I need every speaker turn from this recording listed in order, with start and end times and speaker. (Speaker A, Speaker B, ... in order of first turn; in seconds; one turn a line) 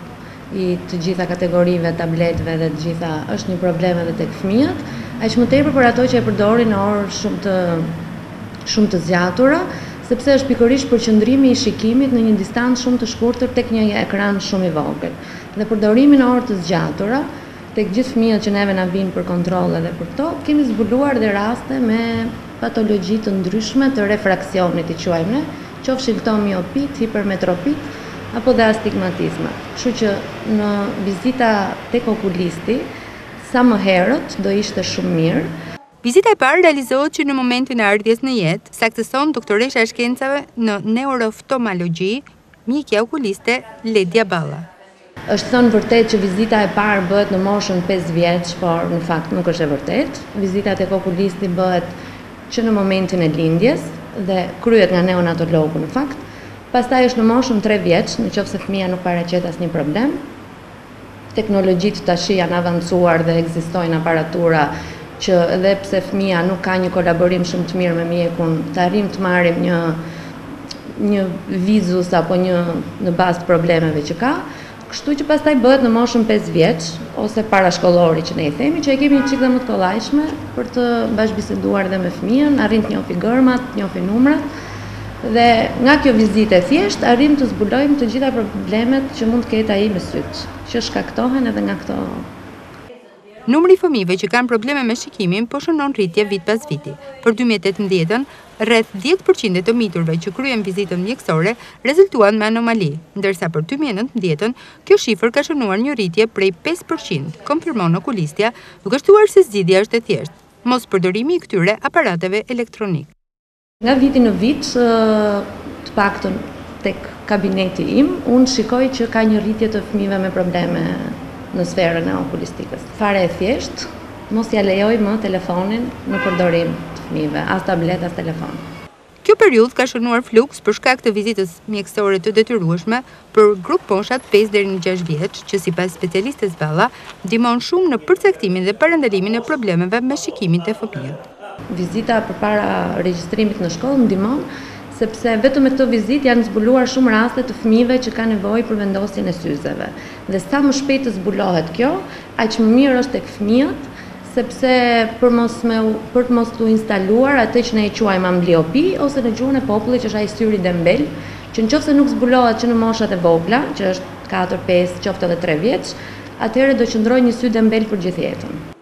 Speaker A: 0.5-7.9
Speaker A: 8.7-32.9
Speaker A: 33.4-35.5
Speaker B: 36.0-44.7
Speaker A: 45.3-51.9
Speaker A: 52.5-60.2
Speaker A: 61.3-70.0
Speaker A: 70.9-84.5
Speaker A: 85.2-92.3
Speaker B: 93.5-113.1
Speaker A: 113.8-128.6
Speaker B: 129.2-141.2
Speaker A: 141.7-168.6